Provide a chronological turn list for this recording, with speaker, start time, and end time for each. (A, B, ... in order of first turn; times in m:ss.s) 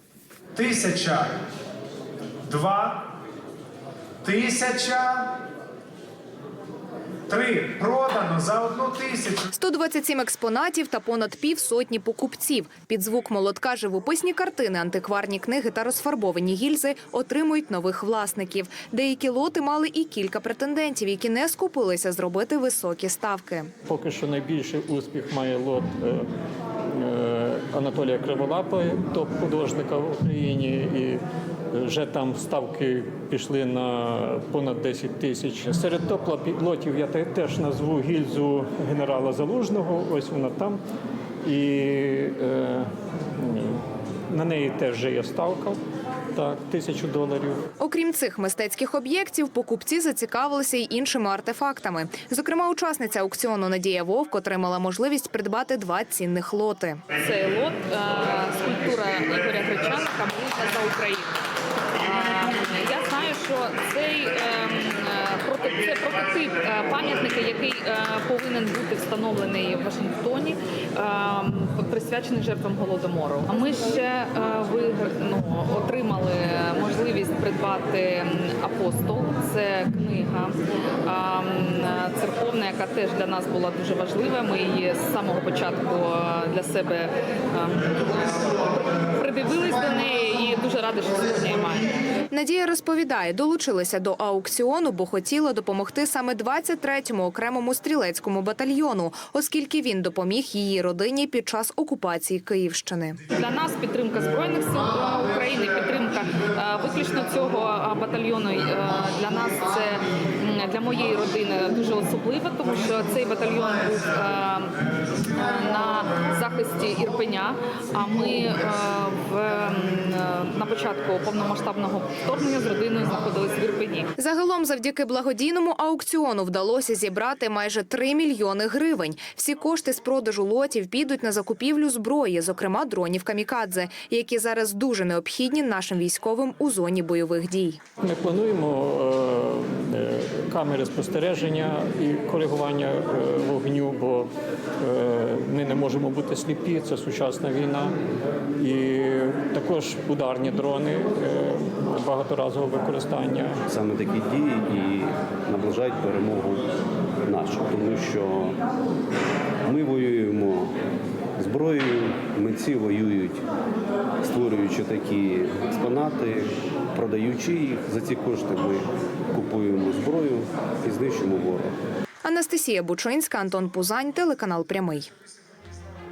0:00.6-0:01.2 A
0:02.5-0:02.9 A
0:04.3-0:05.1 A
0:07.3-0:09.4 A
0:09.5-0:23.7 B
0:23.9-0:26.3 C
0:26.9-0:40.8 C
0:41.4-0:45.8 C
0:46.3-0:47.6 C
0:47.8-0:57.0 B
0:57.1-1:01.4 D
1:02.0-1:32.0 D
1:32.3-1:43.2 B
1:43.3-2:04.1 D
2:04.2-2:17.8 B
2:18.0-2:28.0 C
2:28.6-2:33.6 C
2:33.7-2:36.7 E
2:37.3-2:38.6 E
2:39.6-2:40.7 E
2:41.4-2:43.5 E
2:44.2-2:51.8 E
2:52.2-2:55.1 B